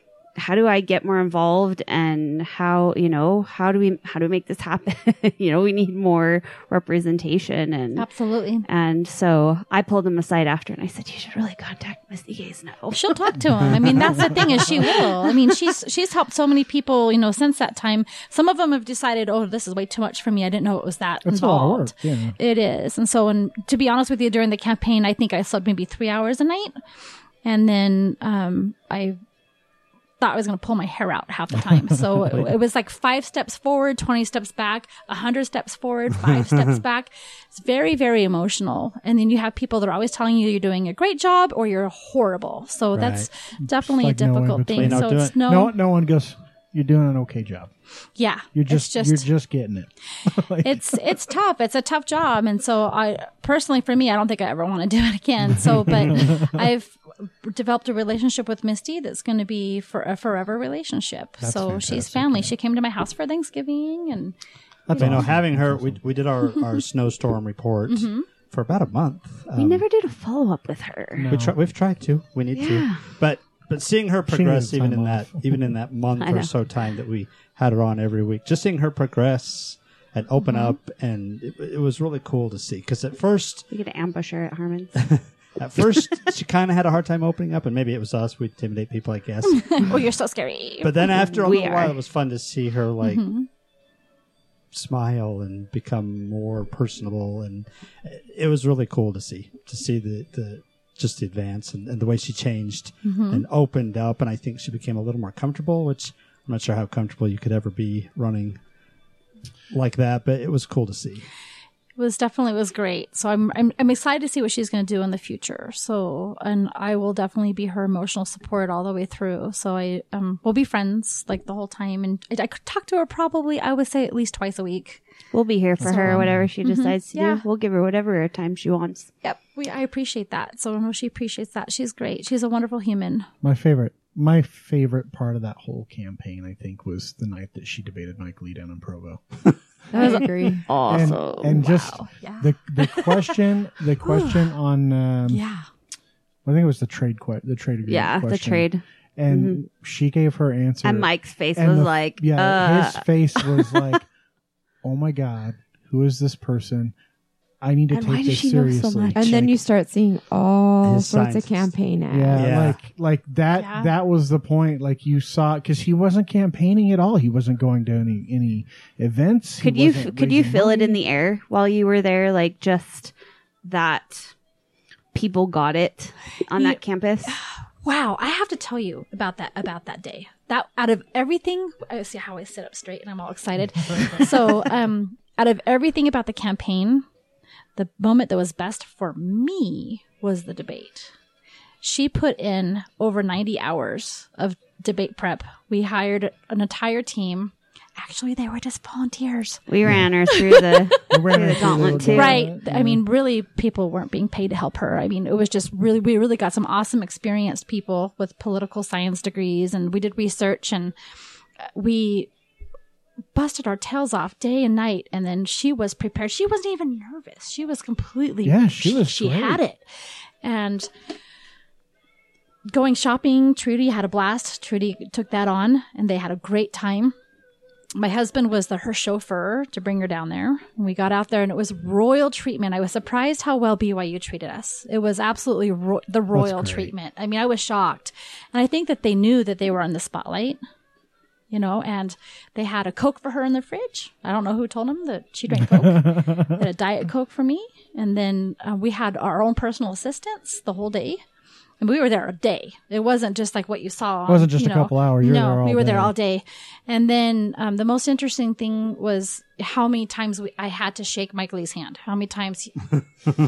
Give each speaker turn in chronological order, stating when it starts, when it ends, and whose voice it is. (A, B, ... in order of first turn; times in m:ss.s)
0:00.4-0:08.1 A
0:08.0-0:08.7 B
0:08.6-0:15.4 A
0:12.9-0:26.8 B
0:21.2-0:22.4 C
0:27.4-0:29.2 B
0:30.2-0:45.7 B
0:36.3-0:36.7 D
0:42.9-0:43.3 D
0:43.7-0:47.7 C
0:44.8-0:45.4 D
0:48.2-0:49.2 B
0:48.5-0:51.1 C
0:50.6-1:04.4 B
0:56.1-0:56.5 C
1:01.4-1:02.5 C
1:04.9-1:09.8 D
1:04.9-1:06.0 C
1:04.9-1:05.3 B
1:07.9-1:08.3 B
1:09.6-1:11.3 A
1:11.1-1:11.6 C
1:11.3-1:23.7 D
1:12.5-1:13.0 A
1:14.3-1:15.7 C
1:16.2-1:16.5 A
1:20.4-1:20.7 B
1:23.7-1:25.0 A
1:25.0-1:30.0 D
1:29.4-1:31.2 B
1:30.8-1:33.2 D
1:31.3-1:32.0 A
1:33.0-1:33.5 B
1:34.7-1:48.6 D
1:43.0-1:43.4 B
1:49.7-1:51.2 D
1:52.0-2:05.0 B
2:05.3-2:09.1 A
2:05.8-2:06.5 C
2:05.8-2:07.4 B
2:09.2-2:13.3 B
2:13.4-2:19.2 C
2:19.9-2:20.6 E
2:20.0-2:22.0 A
2:20.9-2:25.4 C
2:22.2-2:23.1 B
2:24.0-2:24.5 B
2:25.3-2:25.6 B
2:26.4-2:34.1 C
2:27.9-2:29.6 A
2:30.8-2:33.7 A
2:34.8-2:36.9 C
2:37.6-2:39.6 C
2:37.9-2:39.2 A
2:37.9-2:42.5 E
2:40.8-2:41.7 D
2:42.1-2:51.0 C
2:42.3-2:42.8 D
2:43.5-2:43.9 B
2:49.6-2:53.1 A
2:53.6-2:54.3 A
2:55.1-2:57.3 A
2:57.3-3:07.0 B
3:07.8-3:11.1 B
3:11.8-3:19.6 B
3:19.7-3:22.4 A
3:20.3-3:21.0 B
3:21.1-3:23.0 C
3:21.8-3:30.9 B
3:31.7-3:32.3 B
3:33.3-3:39.8 B
3:38.4-3:39.6 C
3:40.4-3:40.9 B
3:42.7-3:47.1 B
3:48.0-4:00.6 B
3:56.3-3:56.9 C
4:01.5-4:11.2 B
4:05.7-4:06.5 C
4:11.8-4:23.0 B
4:14.3-4:16.1 C